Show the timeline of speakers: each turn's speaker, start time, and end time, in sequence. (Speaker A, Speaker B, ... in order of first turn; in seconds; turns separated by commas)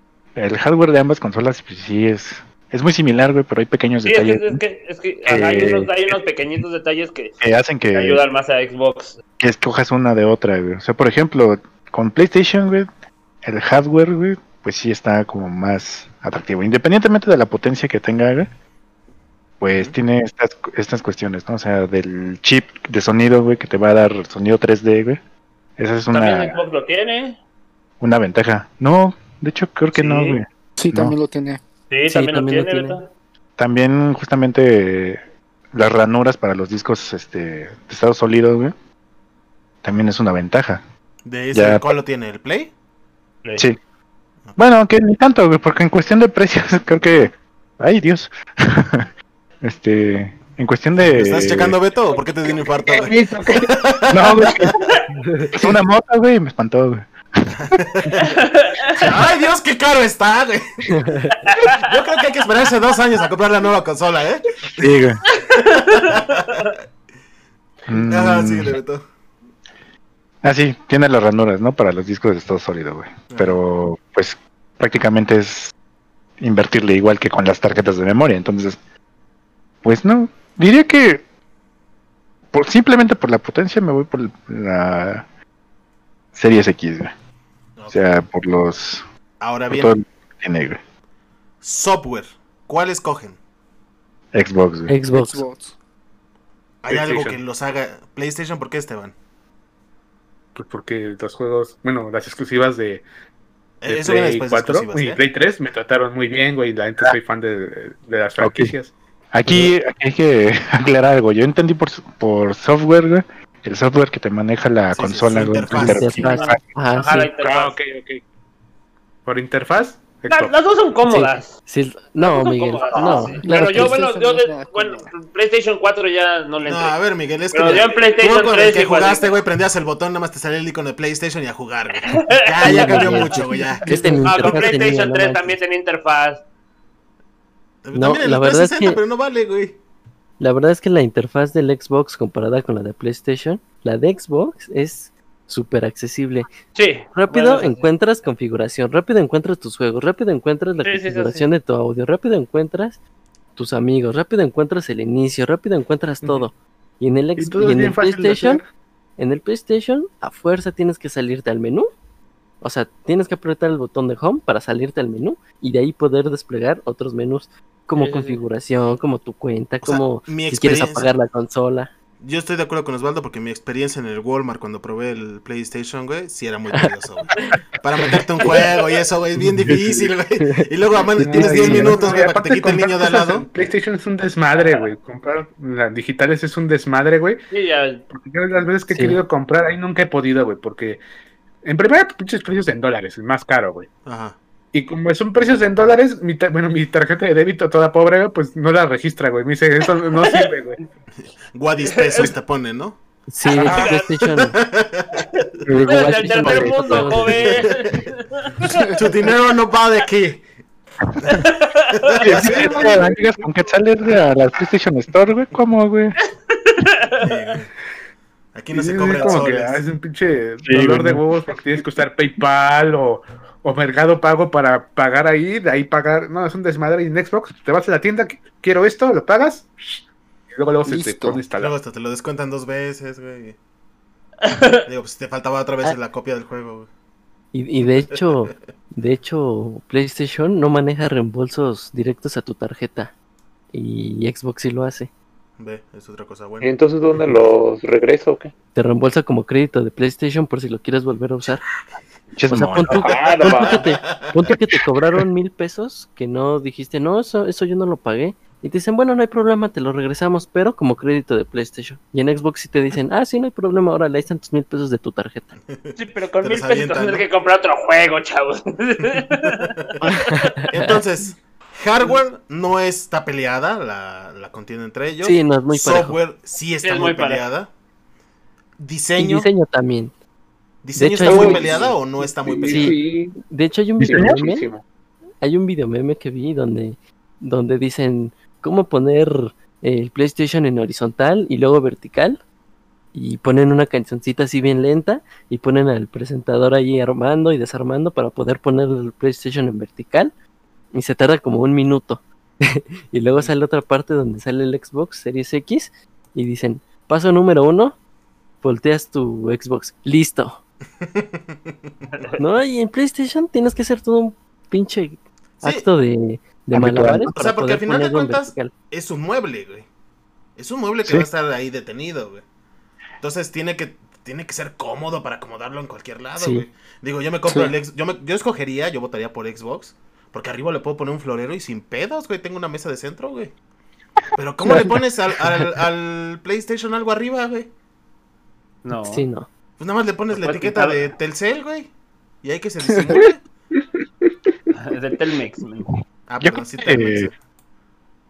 Speaker A: 0.3-4.6, Speaker B: 4.0-7.4, Speaker A: 5.2-6.2, Speaker A: 7.4-8.2, Speaker B: 7.9-9.2, Speaker A: 9.4-12.9, Speaker A: 13.4-18.5, Speaker A: 19.6-25.2, Speaker A: 25.8-26.6, Speaker B: 26.1-27.4, Speaker A: 28.0-31.1, Speaker B: 29.9-30.4, Speaker C: 30.8-31.6, Speaker B: 31.9-33.1, Speaker D: 32.1-33.0, Speaker A: 33.6-35.2, Speaker A: 35.7-38.7, Speaker A: 39.8-40.8, Speaker E: 41.2-42.7, Speaker A: 41.5-41.9, Speaker A: 44.6-49.1, Speaker A: 49.6-51.8, Speaker E: 51.0-54.8, Speaker F: 52.9-53.7, Speaker A: 54.1-54.7, Speaker A: 55.5-57.8, Speaker E: 57.5-58.3, Speaker B: 58.2-59.3, Speaker E: 58.9-61.0, Speaker B: 61.4-61.9, Speaker E: 61.7-66.7, Speaker A: 64.8-65.2, Speaker B: 65.3-66.7, Speaker A: 67.9-68.8, Speaker E: 68.0-69.0, Speaker A: 70.4-75.7, Speaker E: 73.3-73.6, Speaker A: 76.4-78.8, Speaker A: 79.8-81.2, Speaker A: 82.5-85.2, Speaker A: 86.3-87.1, Speaker E: 87.8-88.2, Speaker A: 87.9-89.0, Speaker E: 89.4-89.9, Speaker A: 89.7-90.8, Speaker E: 91.6-93.4, Speaker A: 94.3-94.9, Speaker D: 94.9-95.4, Speaker C: 95.1-95.8, Speaker E: 96.8-99.1, Speaker G: 96.9-97.4, Speaker G: 100.5-103.0, Speaker E: 103.8-105.2, Speaker G: 103.9-108.9, Speaker A: 108.4-108.7, Speaker A: 109.3-116.6, Speaker E: 114.9-116.2, Speaker D: 115.7-117.3, Speaker B: 116.2-117.8, Speaker G: 117.4-118.2, Speaker G: 119.2-120.5, Speaker B: 120.3-121.5, Speaker D: 121.0-124.0, Speaker B: 122.2-126.9, Speaker C: 123.4-125.1, Speaker E: 126.6-134.7, Speaker B: 127.5-129.3, Speaker B: 132.0-136.4, Speaker D: 132.6-135.6, Speaker E: 137.8-139.8, Speaker D: 137.9-139.0, Speaker D: 140.4-146.5, Speaker B: 146.7-147.8, Speaker D: 147.1-153.0, Speaker B: 150.8-151.5, Speaker D: 153.6-158.6, Speaker G: 157.4-158.6, Speaker D: 159.2-161.9, Speaker D: 162.6-171.9, Speaker B: 167.9-168.4, Speaker E: 169.8-171.1, Speaker E: 172.2-183.5, Speaker G: 181.2-187.4, Speaker D: 181.4-182.0, Speaker B: 187.5-188.0, Speaker G: 188.1-191.0, Speaker D: 188.9-189.2, Speaker G: 191.6-193.9, Speaker E: 194.1-194.3, Speaker G: 194.7-200.8, Speaker B: 200.2-200.5, Speaker E: 201.5-203.0, Speaker B: 201.8-202.3, Speaker D: 203.3-204.6, Speaker B: 203.5-204.1, Speaker G: 203.5-203.9, Speaker E: 204.5-205.2, Speaker B: 205.4-208.5, Speaker A: 205.7-207.2, Speaker D: 205.8-207.5, Speaker E: 207.4-208.1, Speaker E: 208.9-210.4, Speaker B: 211.6-212.2, Speaker E: 212.0-212.8, Speaker A: 212.2-216.2, Speaker G: 212.4-213.1, Speaker B: 216.7-217.3, Speaker E: 217.2-217.7, Speaker E: 218.5-219.8, Speaker G: 218.7-230.0, Speaker A: 220.6-221.2, Speaker G: 230.5-231.7, Speaker C: 230.8-231.4, Speaker E: 231.6-233.6, Speaker B: 234.4-234.8, Speaker E: 234.8-236.9, Speaker D: 237.5-243.1, Speaker D: 243.7-245.1, Speaker E: 245.6-246.7, Speaker F: 246.6-248.5, Speaker D: 248.7-251.6, Speaker A: 252.3-253.1, Speaker D: 252.5-265.6, Speaker F: 252.9-253.8, Speaker E: 253.2-254.3, Speaker E: 265.7-267.2, Speaker B: 266.0-270.1, Speaker E: 269.4-269.7, Speaker D: 270.0-270.9, Speaker E: 270.7-277.7, Speaker D: 275.2-276.2, Speaker B: 276.8-277.5, Speaker E: 278.8-279.5, Speaker D: 279.2-280.1, Speaker E: 280.8-283.0, Speaker D: 280.9-281.7, Speaker F: 281.2-283.4, Speaker D: 282.7-283.0, Speaker D: 283.5-284.7, Speaker A: 284.0-284.3, Speaker F: 284.1-284.8, Speaker D: 285.4-292.4, Speaker D: 293.1-300.3, Speaker D: 300.9-308.0, Speaker D: 308.6-310.6, Speaker E: 311.1-311.6, Speaker B: 312.1-312.4, Speaker D: 312.4-318.7, Speaker E: 315.6-315.9, Speaker A: 316.7-317.3, Speaker E: 317.3-319.9, Speaker E: 320.6-322.4, Speaker E: 323.2-333.5, Speaker D: 326.4-326.6, Speaker E: 334.3-337.7, Speaker B: 338.8-339.2, Speaker D: 339.0-339.5, Speaker E: 339.8-341.9, Speaker B: 340.3-341.1, Speaker E: 342.4-343.4, Speaker B: 344.8-346.0, Speaker E: 346.3-347.3, Speaker A: 346.4-347.3